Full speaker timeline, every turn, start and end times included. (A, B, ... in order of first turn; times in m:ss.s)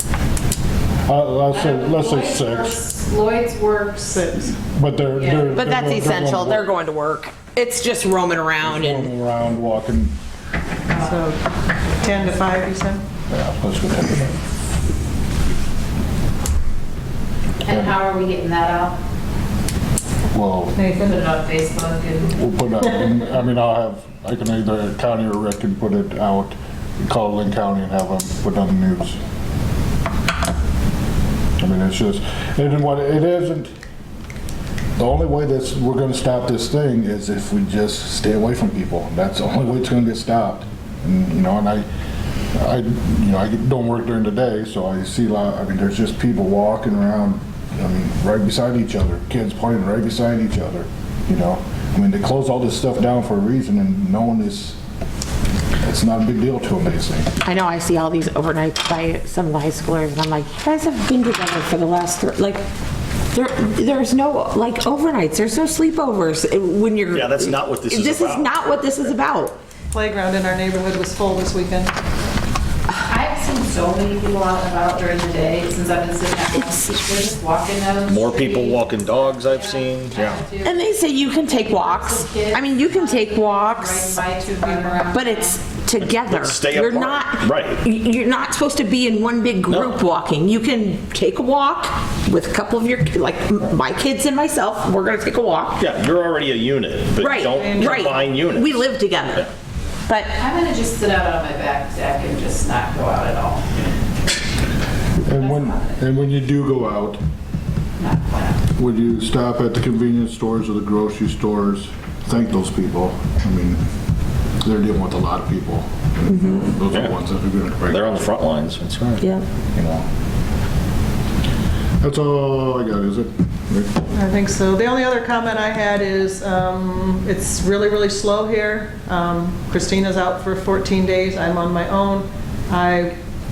0:01.0-0:02.8 A
0:01.5-0:04.2 B
0:04.1-0:04.5 C
0:04.7-0:06.7 A
0:05.2-0:05.4 B
0:05.5-0:09.1 D
0:08.6-0:10.1 A
0:10.9-0:11.2 B
0:11.0-0:13.0 C
0:13.3-0:14.3 A
0:17.6-0:19.0 B
0:17.6-0:18.0 A
0:20.3-0:20.8 A
0:20.8-0:21.2 C
0:21.0-0:22.3 B
0:22.3-0:29.2 A
0:31.6-0:33.7 A
0:35.0-0:41.8 A
0:42.5-0:54.8 A
0:55.8-0:57.4 A
0:57.4-1:02.6 D
1:03.3-1:09.6 D
1:07.1-1:09.1 E
1:09.9-1:11.9 C
1:13.0-1:20.8 B
1:18.1-1:20.4 E
1:20.6-1:24.2 D
1:21.4-1:25.6 B
1:25.1-1:35.8 D
1:26.0-1:27.8 E
1:29.7-1:30.0 E
1:35.8-1:38.8 E
1:37.2-1:39.5 D
1:37.5-1:38.2 C
1:40.1-1:40.4 D
1:40.4-1:43.8 B
1:45.2-1:47.2 A
1:45.4-1:45.8 B
1:48.0-1:48.6 B
1:48.7-1:53.8 A
1:54.6-1:58.3 A
1:56.3-1:56.7 D
1:56.9-1:57.1 E
1:57.9-2:00.0 E
1:59.2-1:59.4 D
2:02.0-2:04.0 A
2:04.1-2:13.1 C